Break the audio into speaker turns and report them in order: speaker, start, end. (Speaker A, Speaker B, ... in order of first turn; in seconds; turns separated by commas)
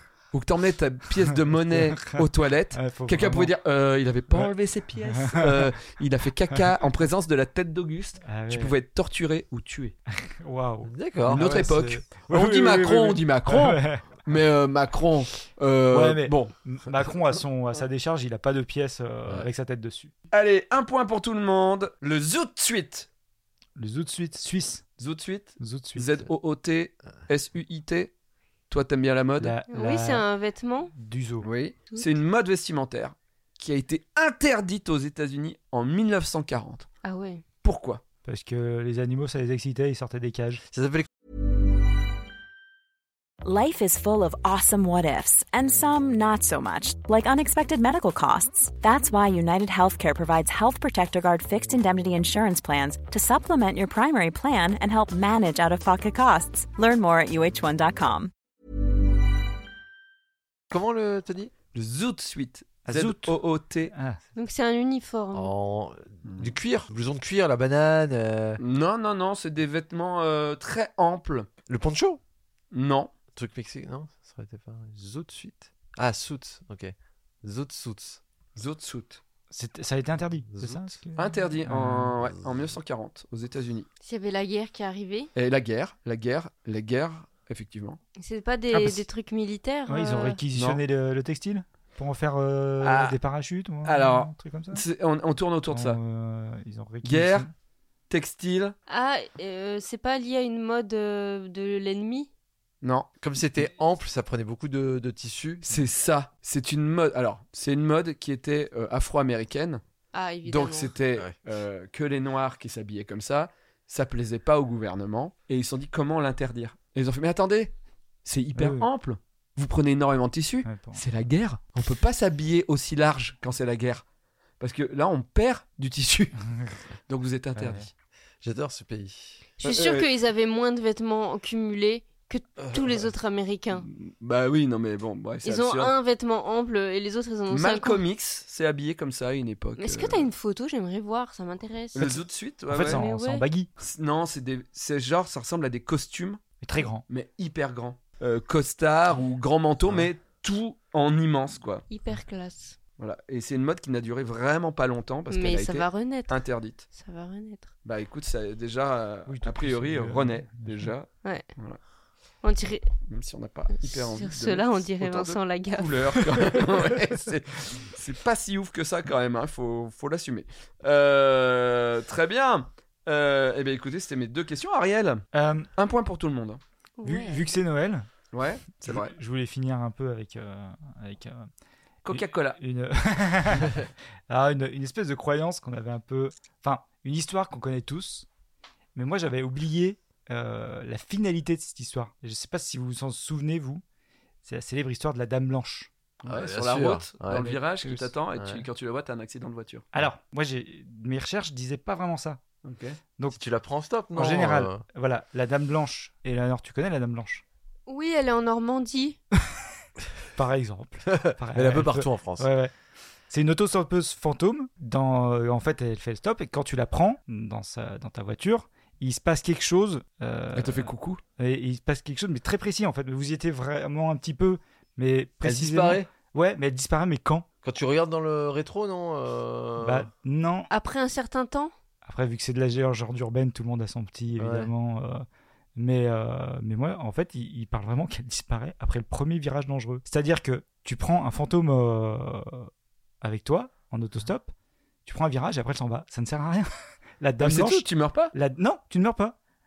Speaker A: 0.3-9.9, Speaker B: 1.7-2.2, Speaker B: 2.7-3.5, Speaker B: 5.1-5.7, Speaker B: 8.2-8.7, Speaker B: 10.1-14.1, Speaker C: 10.8-12.0, Speaker A: 11.3-16.5, Speaker B: 15.9-20.1, Speaker A: 20.3-23.1, Speaker B: 23.8-24.8, Speaker A: 25.0-28.1, Speaker B: 25.6-26.3, Speaker A: 28.7-29.6, Speaker B: 29.4-30.2, Speaker D: 29.7-30.9, Speaker B: 30.9-31.5, Speaker A: 31.4-36.9, Speaker D: 37.0-37.4, Speaker A: 37.6-38.0, Speaker B: 38.2-40.6, Speaker C: 40.7-41.1, Speaker E: 43.4-58.3, Speaker C: 60.7-61.5, Speaker A: 61.7-63.9, Speaker B: 62.9-63.4, Speaker B: 63.9-64.2, Speaker D: 64.3-65.5, Speaker C: 65.3-68.6, Speaker A: 66.2-66.5, Speaker A: 68.6-71.5, Speaker C: 71.7-72.2, Speaker A: 72.7-73.1, Speaker C: 73.3-78.2, Speaker A: 78.5-79.2, Speaker B: 79.5-82.1, Speaker C: 80.5-81.0, Speaker A: 81.2-83.9, Speaker D: 84.0-85.3, Speaker A: 85.3-88.0, Speaker D: 88.2-90.4, Speaker B: 88.7-89.0, Speaker B: 89.9-94.8, Speaker A: 90.5-90.8, Speaker A: 92.8-93.2, Speaker A: 93.8-96.0, Speaker B: 95.7-97.5, Speaker A: 97.0-97.5, Speaker A: 98.1-98.7, Speaker D: 98.9-102.3, Speaker A: 102.8-103.1, Speaker C: 103.2-105.7, Speaker A: 105.7-109.8, Speaker D: 110.1-110.9, Speaker A: 110.5-117.7, Speaker A: 118.2-124.0, Speaker B: 118.5-118.9, Speaker B: 120.6-121.0, Speaker A: 124.6-126.4, Speaker A: 127.1-127.9, Speaker B: 127.5-127.9, Speaker C: 128.4-129.4, Speaker D: 129.6-133.9, Speaker A: 129.6-130.1, Speaker A: 133.8-135.9, Speaker D: 135.4-138.0, Speaker A: 137.5-140.3, Speaker D: 139.8-142.2, Speaker A: 141.9-143.0, Speaker B: 142.7-143.7, Speaker D: 142.8-143.4, Speaker A: 143.8-146.4, Speaker B: 146.6-147.0, Speaker A: 147.1-151.8, Speaker D: 151.9-152.8, Speaker A: 153.0-156.8, Speaker D: 155.3-156.4, Speaker D: 156.9-157.7, Speaker A: 157.8-161.8, Speaker B: 159.3-160.9, Speaker D: 162.4-162.9, Speaker A: 163.1-175.2, Speaker D: 163.8-166.3, Speaker B: 175.3-175.7, Speaker A: 175.8-176.6, Speaker D: 177.0-177.4, Speaker B: 177.0-178.1, Speaker A: 178.3-179.1, Speaker B: 178.8-181.5, Speaker A: 182.0-182.6, Speaker B: 182.1-188.3, Speaker B: 188.9-193.8, Speaker B: 194.4-195.9, Speaker A: 196.2-199.9, Speaker C: 196.3-198.7, Speaker B: 199.9-202.4, Speaker A: 202.6-203.0, Speaker C: 203.3-204.8, Speaker B: 204.1-207.4, Speaker D: 207.9-209.2, Speaker B: 210.3-212.7, Speaker C: 211.1-212.5, Speaker B: 213.3-227.4, Speaker A: 220.5-221.2, Speaker C: 225.4-226.1, Speaker C: 227.6-230.1, Speaker B: 229.8-230.7, Speaker D: 230.7-231.7, Speaker B: 232.0-235.2, Speaker C: 234.4-234.7, Speaker B: 235.8-242.7, Speaker B: 243.2-244.5, Speaker B: 245.1-249.3, Speaker A: 247.4-248.3